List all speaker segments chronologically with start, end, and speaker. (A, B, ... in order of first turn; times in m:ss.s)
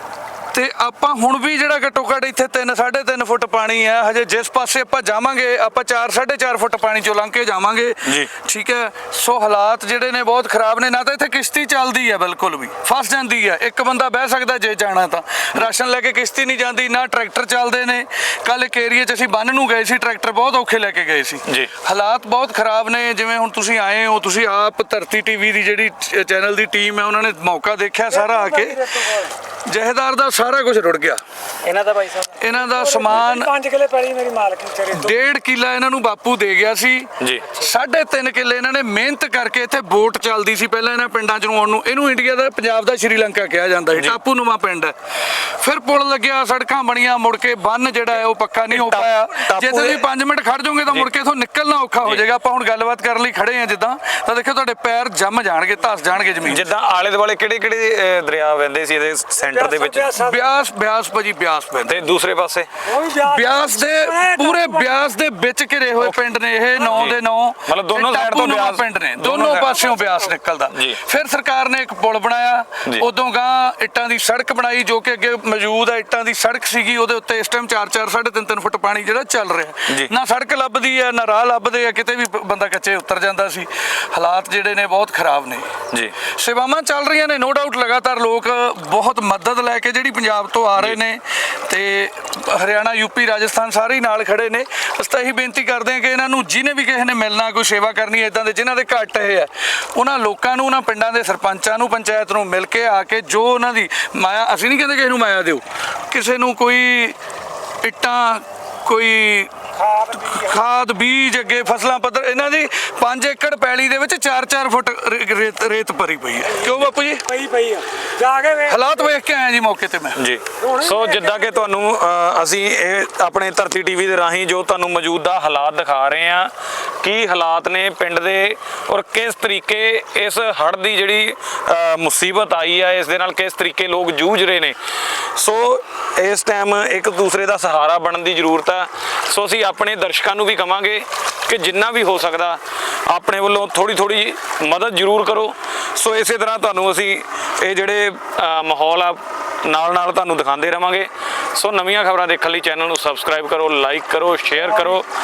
0:00.5-0:31.2 A
0:08.0-0:08.3 B
0:21.4-0:21.7 B
0:31.6-0:32.4 C
0:32.4-0:33.6 A
0:33.1-0:34.9 C
0:34.9-0:44.9 A
0:37.2-0:37.5 B
0:45.5-0:56.6 A
0:48.7-0:50.0 B
0:56.4-1:00.2 B
1:00.2-1:02.0 A
1:01.8-1:02.7 B
1:03.1-1:47.2 A
1:06.8-1:09.8 B
1:10.7-1:11.0 B
1:47.8-1:57.5 A
1:58.5-2:00.2 A
2:00.2-2:14.8 B
2:15.3-2:35.0 B